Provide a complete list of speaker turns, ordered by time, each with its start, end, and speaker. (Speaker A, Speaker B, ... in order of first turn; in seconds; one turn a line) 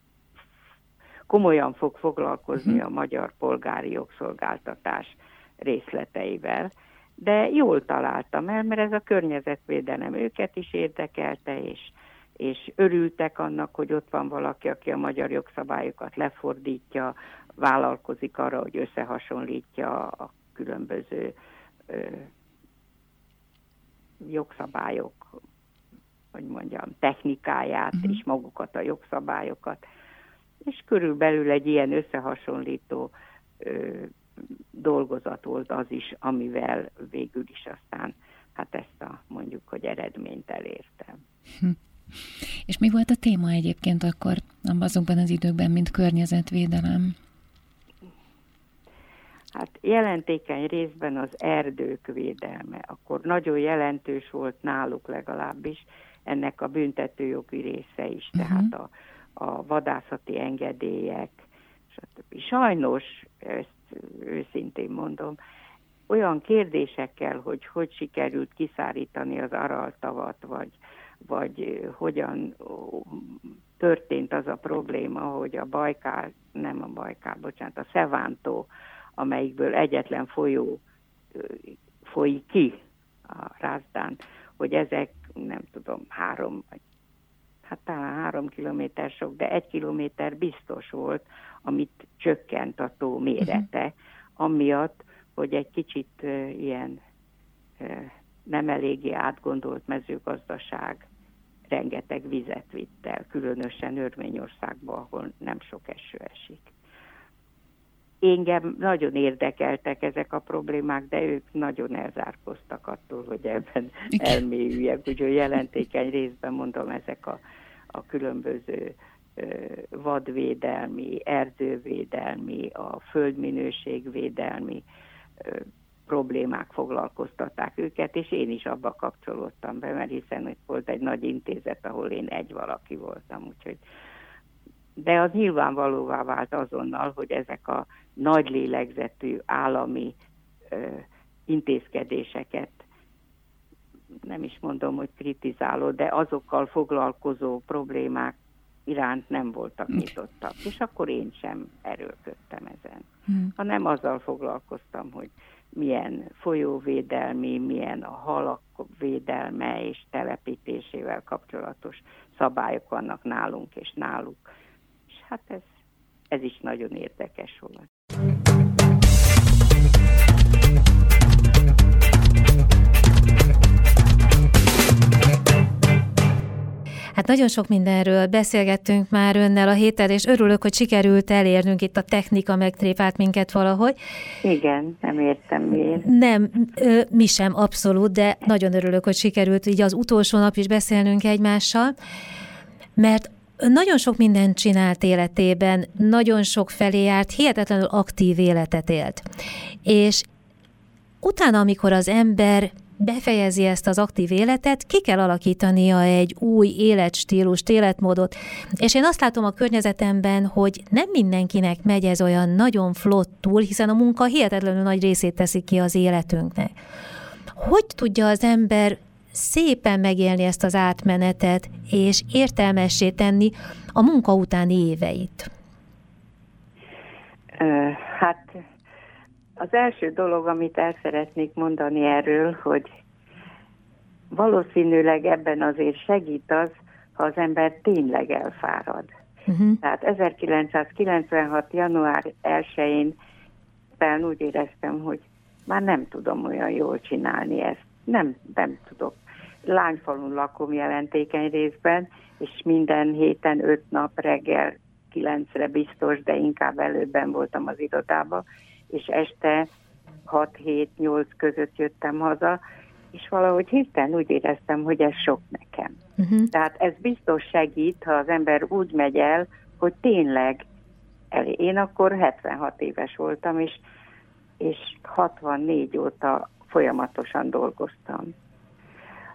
Speaker A: 1.3-21.4
Speaker A: 21.9-22.3
Speaker A: 24.2-25.3
Speaker A: 26.3-29.8
Speaker A: 30.6-34.1
Speaker A: 34.7-41.2
Speaker B: 42.7-47.1
Speaker A: 49.5-65.4
Speaker A: 66.1-80.8
Speaker A: 81.3-86.7
Speaker A: 87.7-97.0
Speaker A: 97.8-101.1
Speaker A: 101.7-106.7
Speaker A: 108.2-117.4
Speaker A: 117.9-124.8
Speaker A: 125.4-133.8
Speaker A: 135.0-140.2
Speaker A: 140.7-142.8
Speaker A: 144.3-148.3
Speaker A: 148.9-164.5
Speaker A: 165.1-165.7
Speaker A: 166.3-167.9
Speaker C: 177.2-184.0
Speaker A: 184.4-186.1
Speaker C: 186.0-191.9
Speaker C: 193.0-199.2
Speaker C: 199.8-200.3
Speaker C: 201.2-216.8
Speaker C: 217.6-225.5
Speaker A: 227.6-228.6
Speaker A: 229.6-232.9
Speaker A: 234.3-239.1
Speaker C: 239.5-239.8
Speaker A: 239.8-243.2
Speaker A: 244.0-259.7
Speaker A: 260.3-262.6
Speaker A: 263.1-266.0
Speaker C: 266.2-266.5
Speaker A: 266.5-270.6
Speaker A: 271.3-273.8
Speaker A: 274.6-278.3